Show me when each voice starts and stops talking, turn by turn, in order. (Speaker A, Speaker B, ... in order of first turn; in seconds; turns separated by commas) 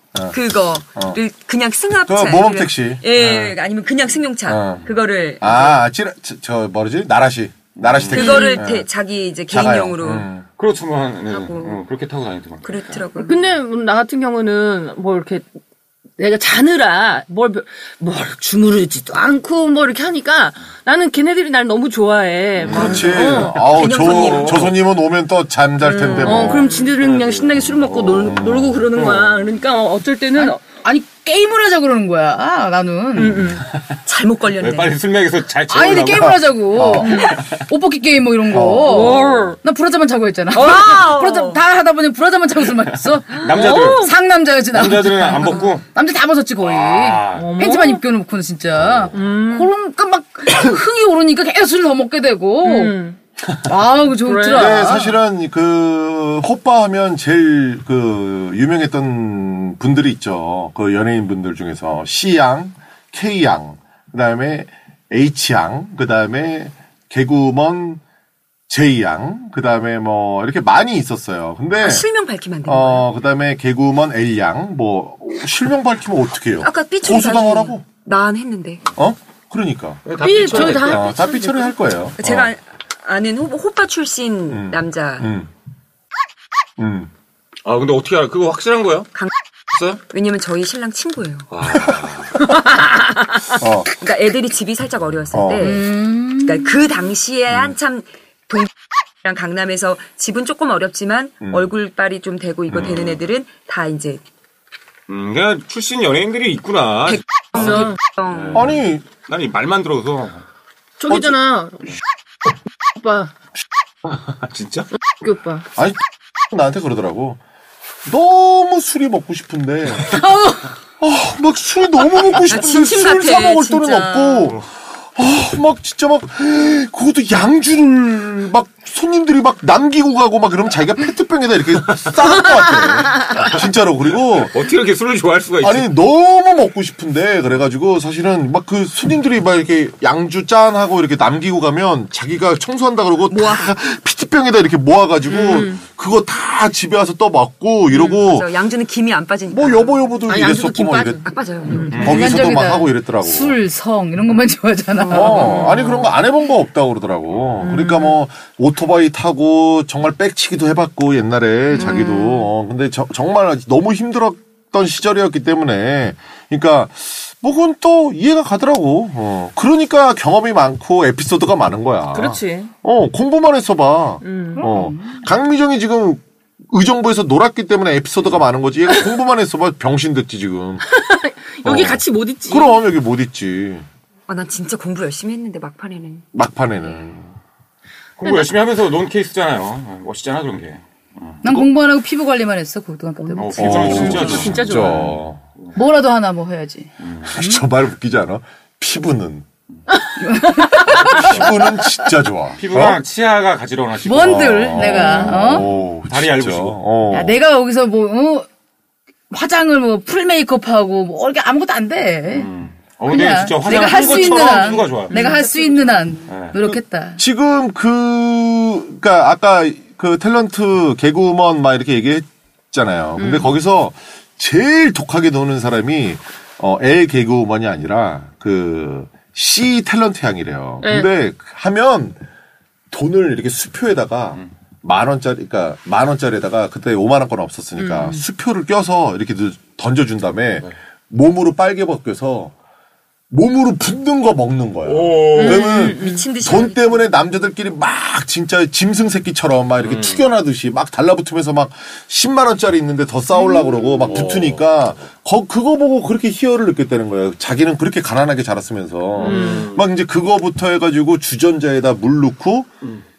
Speaker A: 0.3-5.8, Speaker B: 2.1-3.6, Speaker B: 4.5-4.9, Speaker B: 5.4-8.9, Speaker C: 7.8-8.2, Speaker A: 8.1-10.2, Speaker D: 8.2-8.6, Speaker B: 9.5-10.5, Speaker C: 10.6-13.0, Speaker A: 11.3-11.8, Speaker A: 12.6-13.4, Speaker D: 13.2-15.4, Speaker D: 16.2-23.6, Speaker C: 22.6-23.1, Speaker B: 22.7-26.7, Speaker A: 23.1-24.7, Speaker C: 23.9-24.7, Speaker D: 25.8-30.6, Speaker A: 25.9-26.6, Speaker C: 26.2-28.4, Speaker B: 28.2-28.8, Speaker C: 28.9-29.4, Speaker E: 30.4-33.5, Speaker D: 33.2-33.6, Speaker C: 33.4-34.0, Speaker A: 34.1-35.0, Speaker C: 34.5-36.5, Speaker E: 35.7-53.0, Speaker B: 36.7-37.2, Speaker B: 38.5-39.1, Speaker D: 38.8-39.6, Speaker A: 40.5-41.6, Speaker C: 43.3-44.1, Speaker D: 43.4-44.1, Speaker C: 44.7-45.8, Speaker C: 46.6-47.5, Speaker D: 47.3-48.0, Speaker D: 49.1-49.7, Speaker D: 52.6-53.2, Speaker E: 53.6-55.1, Speaker D: 54.2-54.9, Speaker B: 54.5-68.0, Speaker B: 68.7-72.1, Speaker A: 71.8-73.1, Speaker B: 72.7-77.8, Speaker A: 76.6-78.8, Speaker B: 79.0-80.0, Speaker C: 80.0-81.1, Speaker D: 80.2-81.7, Speaker B: 80.6-82.5, Speaker A: 82.2-85.3, Speaker B: 84.5-85.5, Speaker B: 86.8-87.1, Speaker C: 87.7-89.1, Speaker C: 89.7-90.0, Speaker A: 90.1-91.5, Speaker C: 91.5-92.4, Speaker B: 91.7-92.1, Speaker D: 92.5-93.3, Speaker B: 93.6-93.9, Speaker A: 93.9-98.7, Speaker B: 95.3-95.7, Speaker E: 95.6-96.7, Speaker A: 99.2-104.2, Speaker B: 101.4-101.7, Speaker B: 102.7-103.0, Speaker C: 102.8-103.2, Speaker C: 105.1-107.8, Speaker A: 107.1-108.7, Speaker D: 107.5-108.0, Speaker C: 108.3-110.4, Speaker B: 108.5-109.0, Speaker D: 111.0-111.8, Speaker B: 111.1-111.3, Speaker D: 113.0-113.3, Speaker C: 114.0-114.9, Speaker D: 115.1-115.7, Speaker B: 115.8-117.4, Speaker B: 118.1-120.2, Speaker E: 120.0-120.7, Speaker B: 121.0-124.6, Speaker A: 122.4-124.5, Speaker B: 125.2-134.6, Speaker C: 131.9-132.2, Speaker C: 134.3-135.9, Speaker B: 135.6-148.5, Speaker A: 143.3-143.7, Speaker D: 145.3-145.8, Speaker A: 147.9-149.9, Speaker B: 149.5-153.6, Speaker D: 150.3-152.1, Speaker A: 151.2-152.2, Speaker C: 151.9-152.3, Speaker E: 151.9-155.7, Speaker D: 155.1-156.0, Speaker B: 155.1-180.8, Speaker A: 161.8-162.4, Speaker D: 161.8-162.1, Speaker E: 161.9-162.2, Speaker D: 172.1-172.7, Speaker D: 174.2-174.6, Speaker E: 174.6-175.2, Speaker D: 180.9-182.7, Speaker B: 181.6-183.9, Speaker A: 184.3-186.3, Speaker B: 186.3-187.3, Speaker C: 188.2-191.7, Speaker E: 191.4-194.3, Speaker A: 193.2-194.0, Speaker C: 193.4-194.6, Speaker B: 193.6-195.4, Speaker D: 193.6-195.2, Speaker E: 195.7-196.9, Speaker C: 197.0-197.3, Speaker B: 197.3-199.5, Speaker E: 200.2-201.4, Speaker D: 200.4-201.1, Speaker B: 200.9-203.0, Speaker C: 201.1-201.5, Speaker C: 202.6-206.9, Speaker E: 204.0-205.7, Speaker B: 204.3-207.4, Speaker E: 207.1-208.5, Speaker E: 209.3-212.5, Speaker C: 212.3-215.2, Speaker E: 213.1-217.2, Speaker B: 213.7-214.8, Speaker D: 215.1-215.5, Speaker C: 216.3-216.6, Speaker B: 216.6-232.2, Speaker D: 223.2-223.5, Speaker D: 230.8-231.1, Speaker B: 232.9-242.5, Speaker D: 237.8-238.2, Speaker B: 243.3-262.7, Speaker C: 244.9-245.7, Speaker D: 245.3-246.2, Speaker A: 245.5-247.1, Speaker C: 249.8-250.2, Speaker A: 253.5-254.1, Speaker C: 254.1-254.6, Speaker C: 259.2-259.8, Speaker D: 259.2-259.7